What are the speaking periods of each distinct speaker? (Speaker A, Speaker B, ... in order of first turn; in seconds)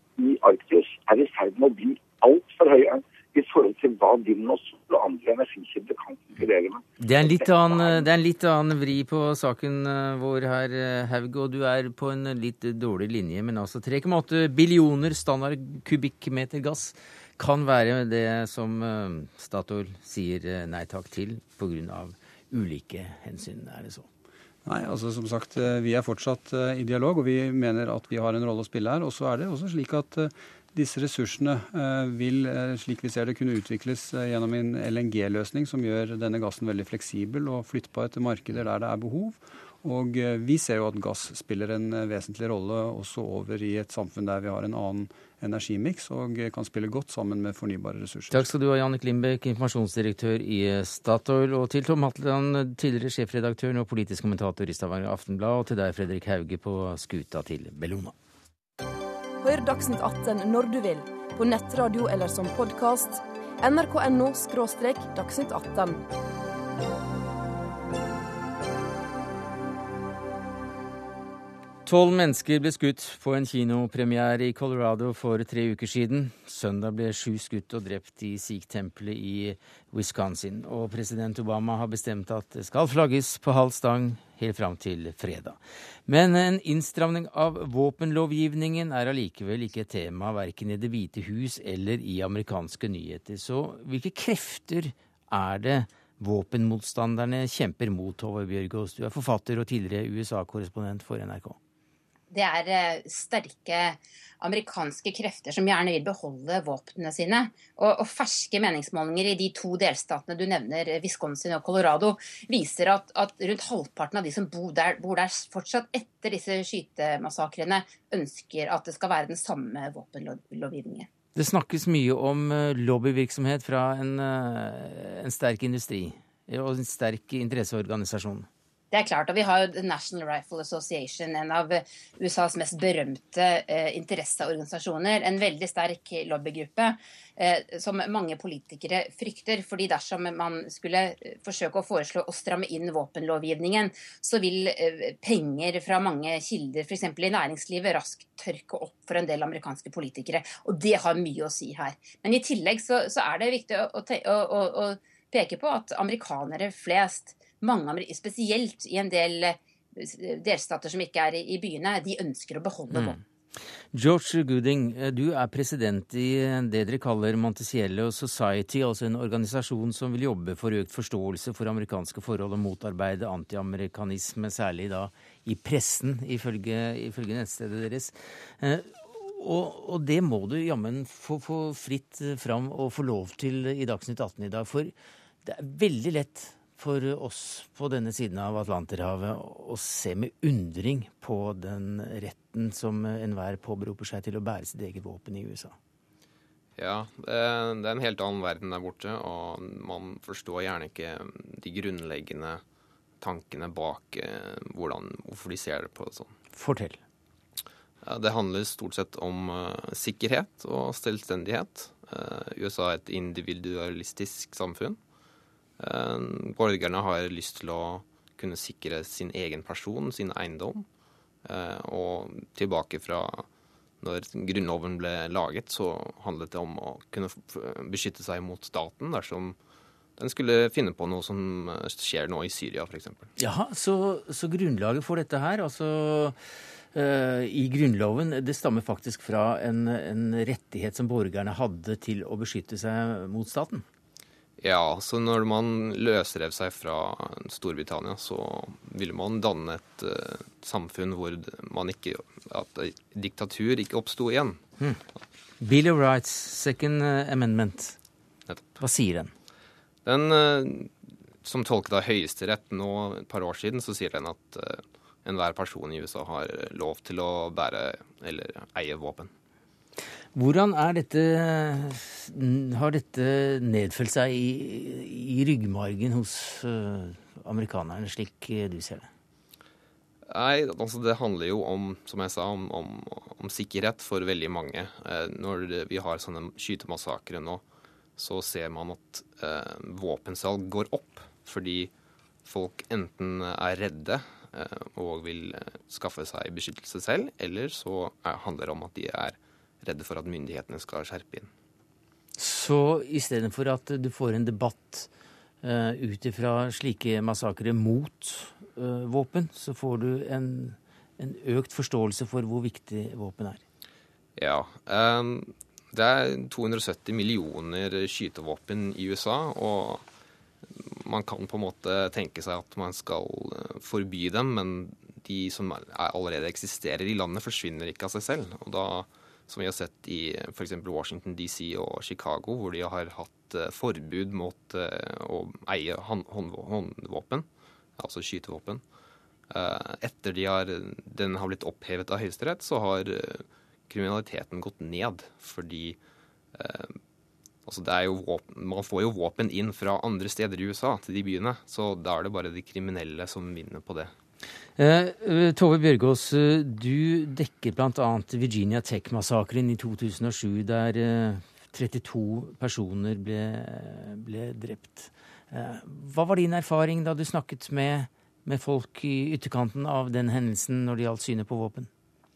Speaker A: 0.2-8.0
Speaker B: 7.0-24.1, 48.3-58.1, 71.8-101.6, 121.3-128.5, 162.9-163.2, 163.9-195.7, 206.5-207.0, 233.4-236.4, 236.9-243.8, 255.6-258.0, 258.8-259.3, 270.3-279.1, 302.4-305.1, 305.6-313.6, 354.8-371.9
Speaker C: 24.6-48.5
Speaker D: 59.4-66.0
Speaker E: 102.3-121.1, 128.9-163.2
Speaker F: 196.8-202.6, 203.2-206.3, 208.0-215.0, 215.8-220.9, 221.4-223.4, 224.0-229.6, 230.2-233.3, 244.6-254.6, 260.1-269.3, 280.3-287.6, 288.2-291.9, 292.4-301.5, 314.4-320.0, 320.8-337.4, 338.0-338.8, 339.5-346.0, 346.5-347.0, 347.7-354.1